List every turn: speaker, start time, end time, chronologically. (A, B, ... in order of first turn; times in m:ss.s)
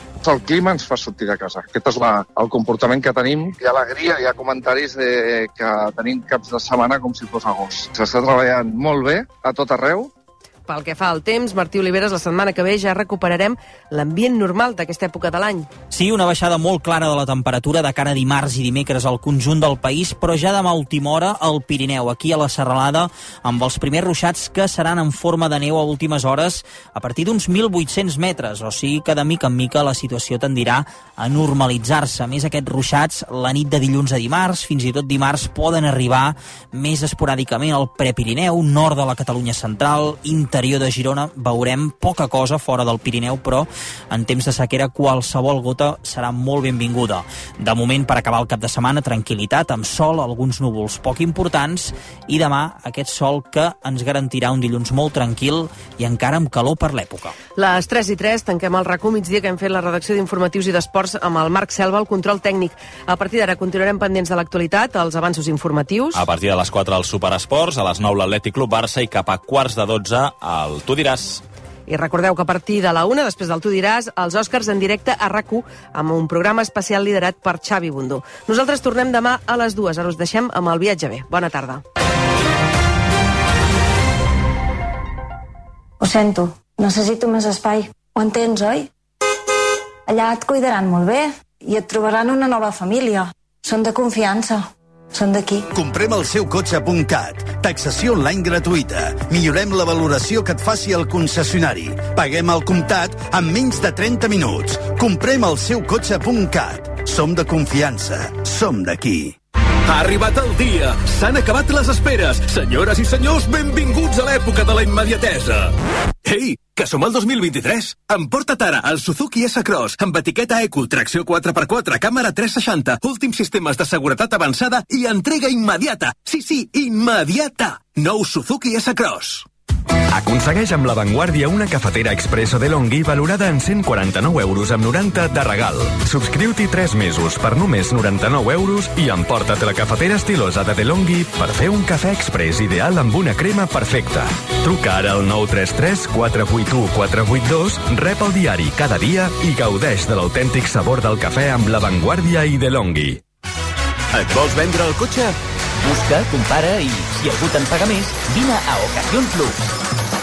0:00.2-0:10.1 A
0:10.7-0:15.7 B
0:15.9-0:57.3 C
0:57.6-1:06.2 B
1:06.1-1:11.4 D
1:11.9-1:21.8 B
1:26.0-1:28.9 E
1:30.1-1:35.7 E
1:35.7-1:49.3 F
1:49.9-1:51.0 G
1:51.1-1:51.4 H
1:51.9-1:52.3 G
1:52.5-1:52.9 H
1:53.2-1:54.3 G
1:54.3-1:55.1 H
1:56.3-1:56.8 H
1:57.4-2:01.0 G
1:58.5-1:58.8 H
2:01.1-2:01.4 H
2:02.5-2:08.5 G
2:08.6-2:09.3 H
2:10.1-2:33.2 H
2:34.1-2:35.3 H
2:35.8-2:39.7 I